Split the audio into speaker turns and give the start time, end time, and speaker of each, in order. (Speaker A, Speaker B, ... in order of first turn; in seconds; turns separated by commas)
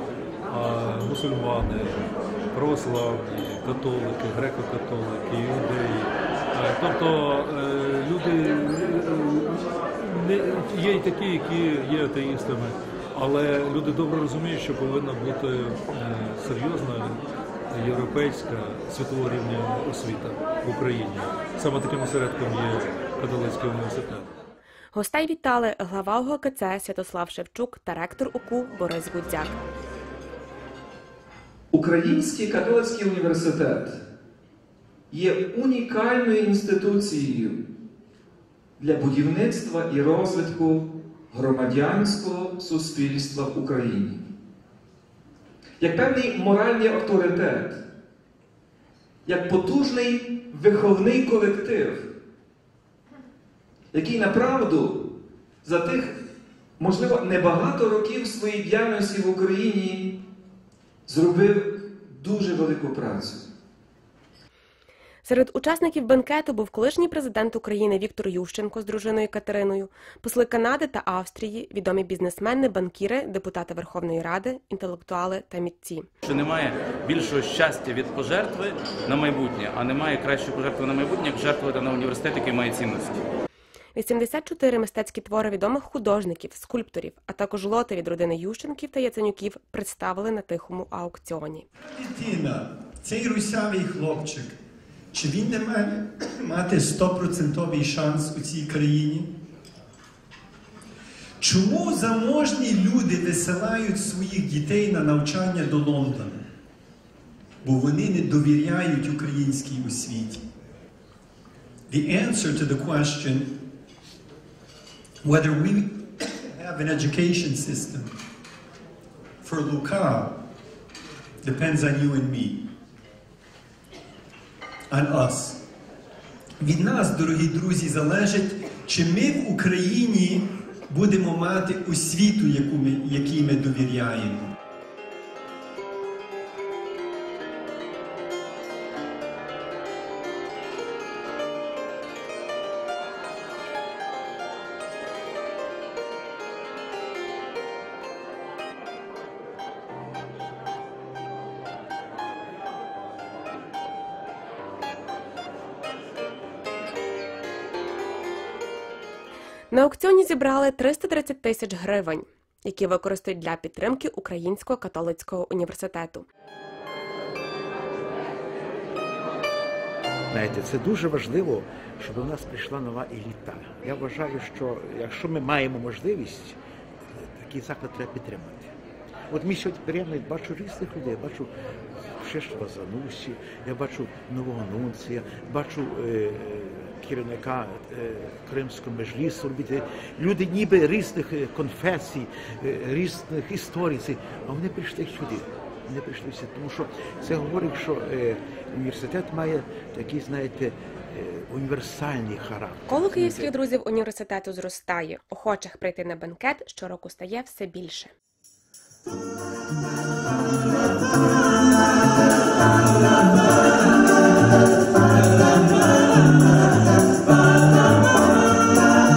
Speaker A: 0.5-2.0, Speaker A: 2.5-24.3, Speaker B: 24.9-29.6, Speaker C: 31.7-34.0, Speaker C: 35.1-37.6, Speaker C: 38.8-44.2, Speaker C: 45.8-47.8, Speaker C: 49.2-52.0, Speaker C: 53.9-55.0, Speaker C: 55.6-56.2, Speaker C: 56.8-60.1, Speaker C: 61.1-63.5, Speaker B: 65.2-76.1, Speaker D: 76.2-83.2, Speaker B: 83.9-91.7, Speaker E: 91.8-94.5, Speaker E: 95.1-99.3, Speaker E: 101.4-106.4, Speaker E: 107.6-110.4, Speaker E: 111.9-113.6, Speaker E: 115.2-118.1, Speaker E: 119.4-120.3, Speaker E: 121.4-122.6, Speaker E: 124.9-125.6, Speaker E: 126.6-134.5, Speaker B: 159.7-166.2, Speaker F: 170.3-176.6, Speaker F: 177.2-178.7, Speaker F: 179.3-181.5, Speaker F: 182.2-203.5, Speaker B: 202.9-208.1